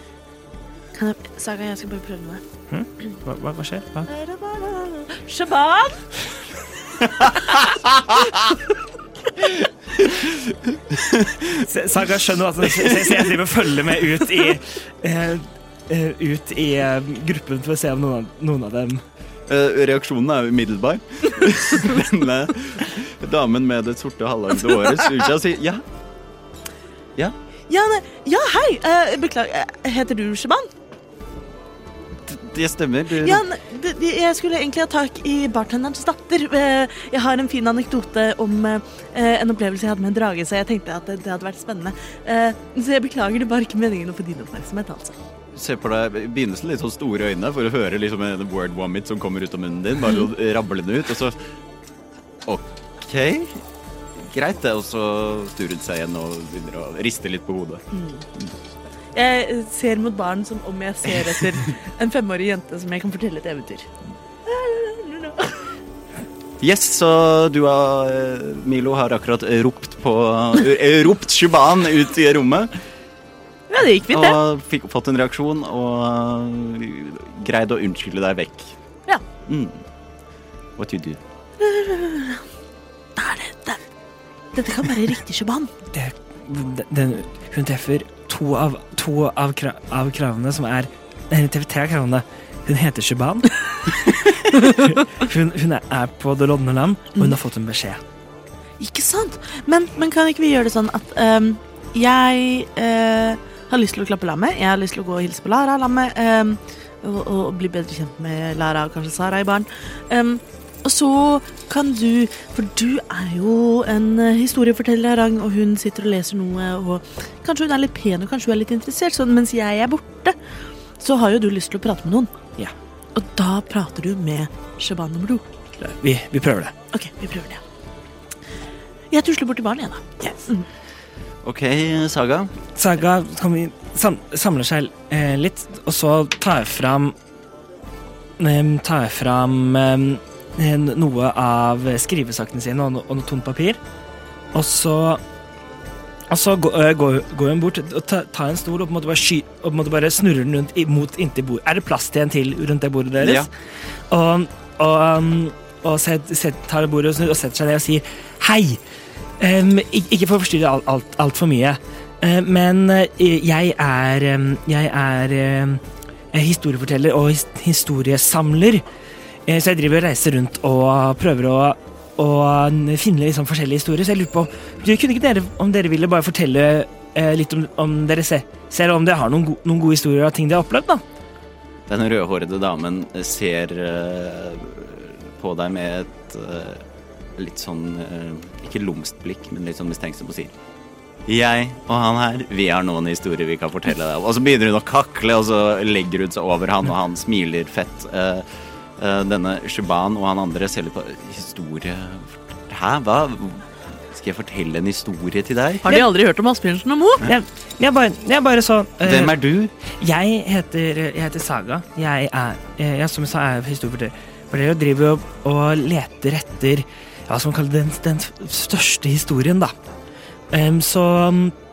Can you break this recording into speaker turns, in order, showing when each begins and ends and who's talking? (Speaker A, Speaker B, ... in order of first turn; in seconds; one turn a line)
Speaker A: 0.9-2.4
Speaker B: 2.7-4.1
Speaker A: 4.1-6.0
Speaker C: 7.9-8.2
Speaker C: 9.5-11.6
Speaker B: 11.5-19.0
Speaker C: 12.6-13.2
Speaker C: 19.5-25.8
Speaker A: 27.7-30.7
Speaker C: 32.2-33.4
Speaker A: 33.1-45.2
Speaker C: 45.5-51.4
Speaker C: 52.4-53.6
Speaker C: 54.1-57.8
Speaker A: 57.9-58.2
Speaker A: 59.1-63.9
Speaker A: 64.5-65.7
Speaker C: 66.6-72.7
Speaker A: 73.7-74.4
Speaker C: 74.1-78.8
Speaker C: 79.5-79.8
Speaker C: 80.8-81.2
Speaker A: 81.6-82.4
Speaker A: 83.2-83.8
Speaker A: 84.5-85.7
Speaker B: 85.9-98.0
Speaker A: 98.8-120.3
Speaker A: 121.0-122.3
Speaker A: 123.2-125.5
Speaker B: 125.8-126.7
Speaker A: 126.9-127.6
Speaker A: 129.1-130.7
Speaker C: 131.4-132.5
Speaker B: 132.8-137.1
Speaker B: 138.4-143.8
Speaker B: 144.5-145.2
Speaker B: 146.3-153.5
Speaker C: 153.2-153.5
Speaker B: 154.1-158.8
Speaker B: 159.4-168.8
Speaker B: 169.5-181.0
Speaker C: 181.9-186.8
Speaker C: 187.3-190.5
Speaker C: 191.2-198.4
Speaker C: 199.0-206.0
Speaker A: 205.8-207.2
Speaker B: 207.2-219.7
Speaker C: 209.0-209.7
Speaker B: 220.5-221.6